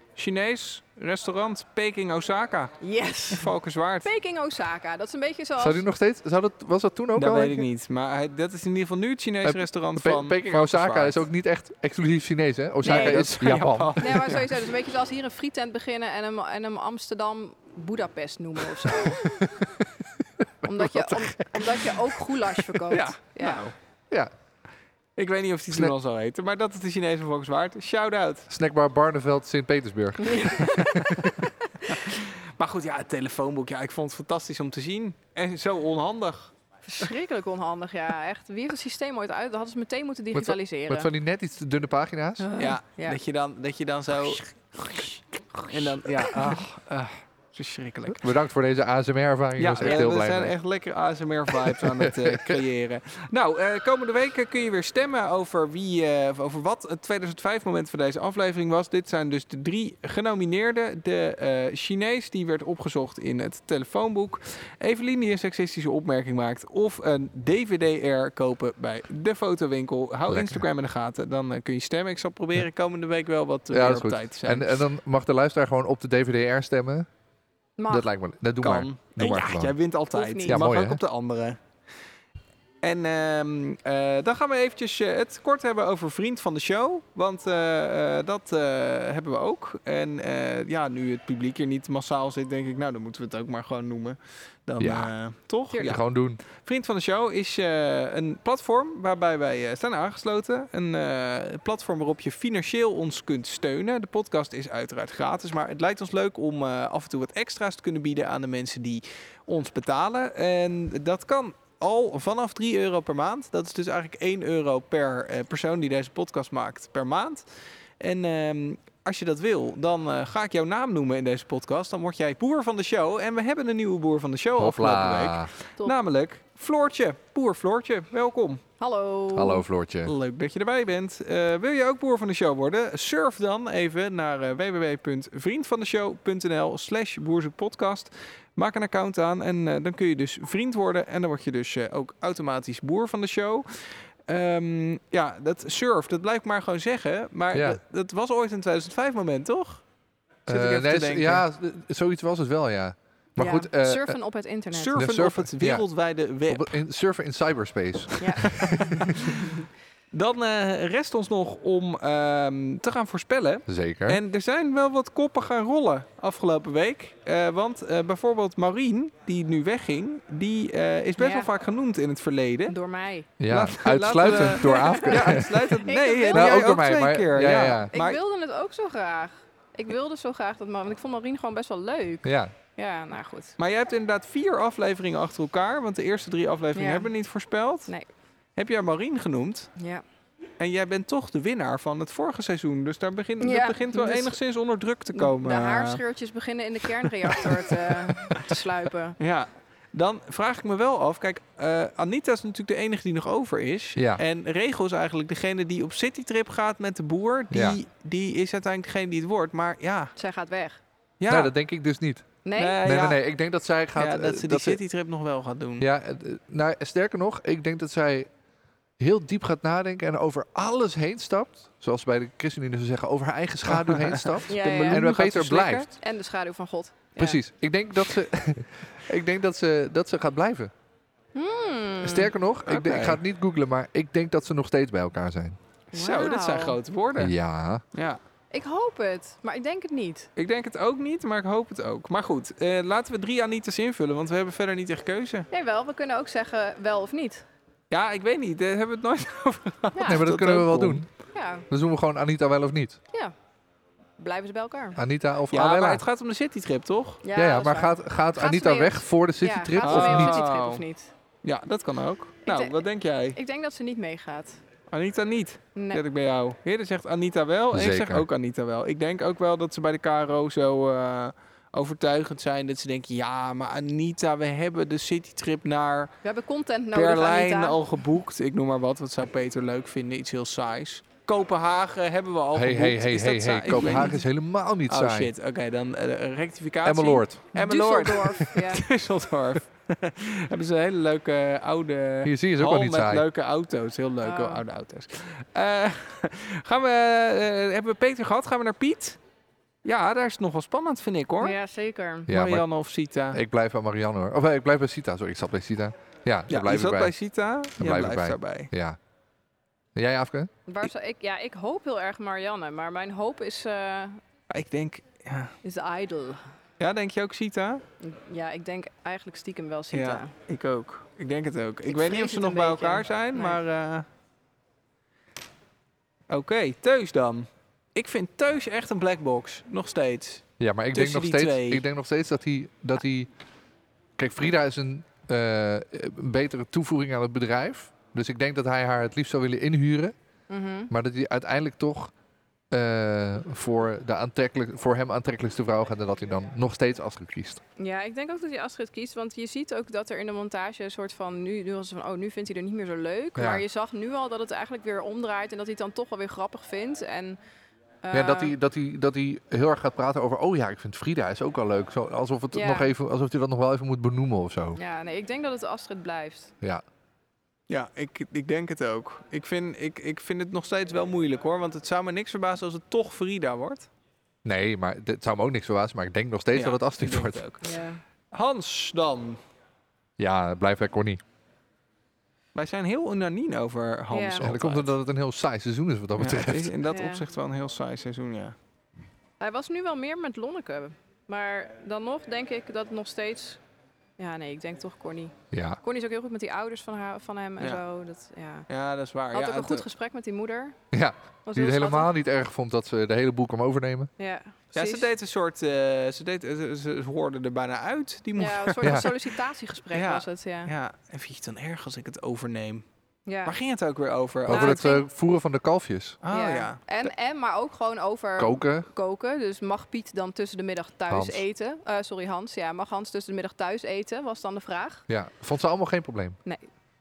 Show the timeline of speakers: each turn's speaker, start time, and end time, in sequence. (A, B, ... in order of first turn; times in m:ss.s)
0:00.2-0:02.7 A
0:02.8-0:03.5 B
0:03.3-0:04.1 A
0:04.0-0:05.8 B
0:05.6-0:07.7 C
0:07.1-0:11.2 A
0:09.4-0:14.3 C
0:12.8-0:13.3 B
0:12.8-0:14.5 A
0:14.0-0:19.3 B
0:20.6-0:23.6 B
0:20.6-0:21.8 C
0:22.9-0:23.7 A
0:25.2-0:28.5 A
0:28.5-0:31.4 C
0:30.2-0:31.7 B
0:31.9-0:37.1 A
0:36.9-0:41.1 B
0:40.3-0:42.5 C
0:42.4-0:43.2 B
0:42.6-0:44.4 A
0:45.6-0:48.3 A
0:48.2-0:50.5 C
0:49.6-1:14.8 A
0:51.5-0:52.6 C
1:10.3-1:10.6 C
1:13.7-1:17.1 C
1:17.8-1:18.1 B
1:17.9-1:19.8 C
1:18.6-1:21.6 A
1:20.1-1:20.6 B
1:20.4-1:21.0 C
1:22.8-1:57.4 A
1:34.8-1:35.1 C
1:35.8-1:36.4 C
1:58.0-2:08.6 A
2:04.6-2:05.5 C
2:08.8-2:09.6 B
2:09.3-2:10.1 C
2:10.0-2:29.8 A
2:27.5-2:27.8 C
2:30.5-2:31.4 A
2:30.5-2:34.2 C
2:33.4-2:35.0 B
2:34.7-2:36.7 A
2:34.9-2:35.9 C
2:36.5-2:39.1 C
2:38.2-2:38.4 B
2:38.4-2:52.7 A
2:39.0-2:39.4 B
2:43.7-2:44.2 C
2:51.2-2:51.5 B
2:52.7-2:53.3 B
2:53.4-2:55.6 C
2:53.5-2:58.2 A
2:54.3-2:56.8 B
2:56.3-2:57.9 C
2:57.9-3:03.5 B
3:02.2-3:02.5 C
3:03.6-3:07.9 A
3:06.7-3:07.1 B
3:08.6-3:09.7 A
3:09.8-3:10.0 B
3:10.6-3:16.0 A
3:13.4-3:14.4 B
3:15.1-3:19.2 B
3:19.2-3:30.1 A
3:24.0-3:24.2 C
3:27.5-3:27.8 C
3:30.2-3:30.8 B
3:31.2-3:31.5 A
3:31.3-3:32.3 C
3:32.4-3:33.1 B
3:32.6-3:33.2 A
3:32.8-3:34.8 C
3:34.0-3:35.9 A
3:35.8-3:38.3 C
3:39.0-3:45.9 C
3:43.7-3:45.9 A
3:44.5-3:45.0 B
3:46.0-3:47.4 B
3:47.2-3:50.7 C
3:51.3-3:52.3 B
3:52.0-3:55.6 C
3:52.6-3:53.2 A
3:55.9-3:56.8 B
3:55.9-3:57.3 A
3:57.2-3:57.8 C
3:57.9-3:58.2 A
3:58.5-4:00.3 B
4:00.4-4:05.5 A
4:05.5-4:07.4 B
4:07.9-4:11.0 A
4:09.9-4:10.3 B
4:10.0-4:11.1 C
4:11.3-4:11.6 B
4:11.7-4:13.0 C
4:14.2-4:15.0 B
4:15.0-4:16.0 C
4:15.5-4:17.2 A
4:17.2-4:21.1 B
4:17.3-4:20.4 C
4:19.8-4:20.8 A
4:21.4-4:23.4 A
4:22.4-4:22.8 B
4:23.3-4:24.6 B
4:24.9-4:36.1 A
4:25.7-4:26.0 B
4:27.7-4:28.3 C
4:36.2-4:37.8 B
4:36.9-4:44.2 A
4:42.5-4:45.3 C
4:43.9-4:44.2 B
4:44.9-4:59.2 A
4:46.8-4:47.4 C
4:47.5-4:48.8 B
4:52.2-4:53.2 C
4:54.2-4:54.6 B
4:59.8-5:01.6 A
5:01.4-5:02.3 B
5:02.3-5:02.7 C
5:02.3-5:03.4 A
5:03.3-5:07.1 C
5:06.5-5:08.7 A
5:07.8-5:09.0 C
5:09.9-5:10.5 C
5:10.7-5:14.2 B
5:14.5-5:15.5 A
5:15.6-5:16.4 B
5:16.8-5:17.8 A
5:18.0-5:20.3 B
5:19.9-5:24.0 A
5:21.9-5:23.6 B
5:26.3-5:31.8 A
5:30.6-5:33.3 C
5:34.2-5:40.1 C
5:40.5-5:40.9 B
5:40.9-5:42.1 C
5:42.7-5:47.6 C
5:47.8-5:57.4 B
5:53.4-5:53.6 C
5:58.0-5:58.5 B
5:58.1-6:04.8 C
6:02.5-6:02.9 B
6:04.7-6:06.5 B
6:07.7-6:13.9 A
6:14.4-6:17.4 C
6:16.5-6:17.8 A
6:17.6-6:18.0 B
6:18.3-6:19.4 A
6:20.2-6:21.2 C
6:22.5-6:24.9 A
6:24.1-6:24.5 B
6:24.4-6:26.7 C
6:26.2-6:28.5 A
6:26.9-6:27.2 B
6:29.4-6:33.6 B
6:34.2-6:38.7 B
6:35.5-6:35.8 C
6:38.7-6:39.8 A
6:39.3-6:40.8 B
6:40.9-6:44.1 C
6:41.4-6:42.1 B
6:44.2-6:45.1 B
6:44.7-6:49.2 A
6:48.4-6:50.7 B
6:48.8-6:49.1 C
6:49.9-6:52.8 A
6:53.3-6:53.5 B
6:53.4-6:54.8 A
6:54.4-6:56.2 C
6:54.5-6:55.0 B
6:56.2-6:57.1 A
6:56.3-7:05.0 B
6:58.4-6:58.9 C
7:01.1-7:01.4 C
7:05.1-7:06.4 C